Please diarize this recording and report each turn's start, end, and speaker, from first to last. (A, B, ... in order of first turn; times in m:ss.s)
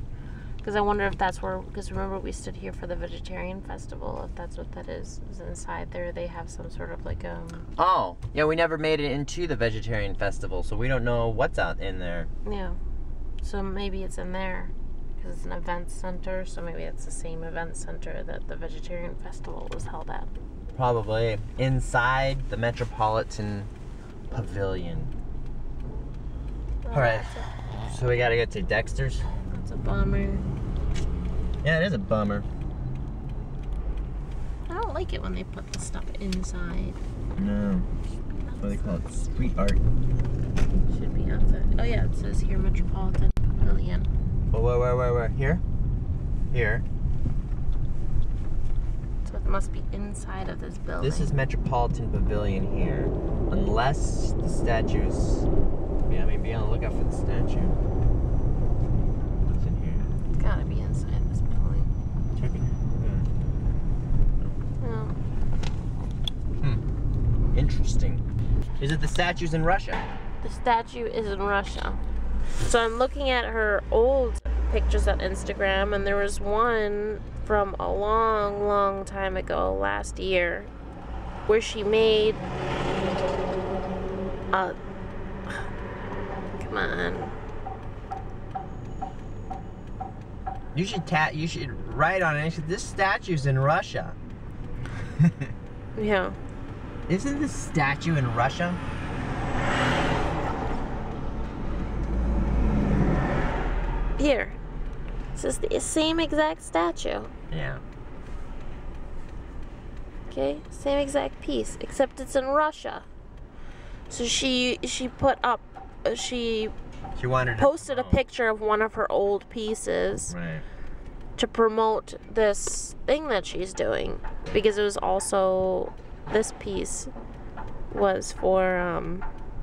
0:00.6-0:07.7 A
0:07.8-0:12.3 B
0:12.4-0:12.8 A
0:13.4-0:20.3 A
0:20.8-0:23.7 B
0:24.3-0:25.1 B
0:26.8-0:27.5 A
0:26.9-0:29.2 B
0:29.5-0:30.4 A
0:31.6-0:32.5 B
0:34.7-0:37.0 A
0:37.4-0:37.9 B
0:38.4-0:39.0 A
0:38.6-0:39.8 B
0:40.9-0:44.1 A
0:44.5-0:45.6 B
0:46.5-0:46.8 B
0:49.2-0:51.3 A
0:51.0-0:55.5 B
0:56.1-0:57.8 B
0:59.5-1:00.1 B
1:00.4-1:01.9 A
1:02.4-1:03.3 B
1:04.8-1:05.2 A
1:07.5-1:08.2 B
1:08.8-1:10.0 B
1:10.4-1:12.0 A
1:12.6-1:20.7 A
1:21.5-1:22.4 A
1:26.6-1:27.4 A
1:30.7-1:34.2 B
1:35.2-1:35.5 B
1:36.0-1:36.4 A
1:37.1-1:38.8 B
1:44.2-1:44.6 A
1:45.4-1:47.3 A
1:47.5-1:47.8 B
1:50.3-1:53.1 A
1:54.1-1:56.7 A
1:57.2-1:58.2 B
1:57.6-2:00.3 A
2:00.3-2:00.6 B
2:01.4-2:07.1 A
2:07.9-2:09.3 A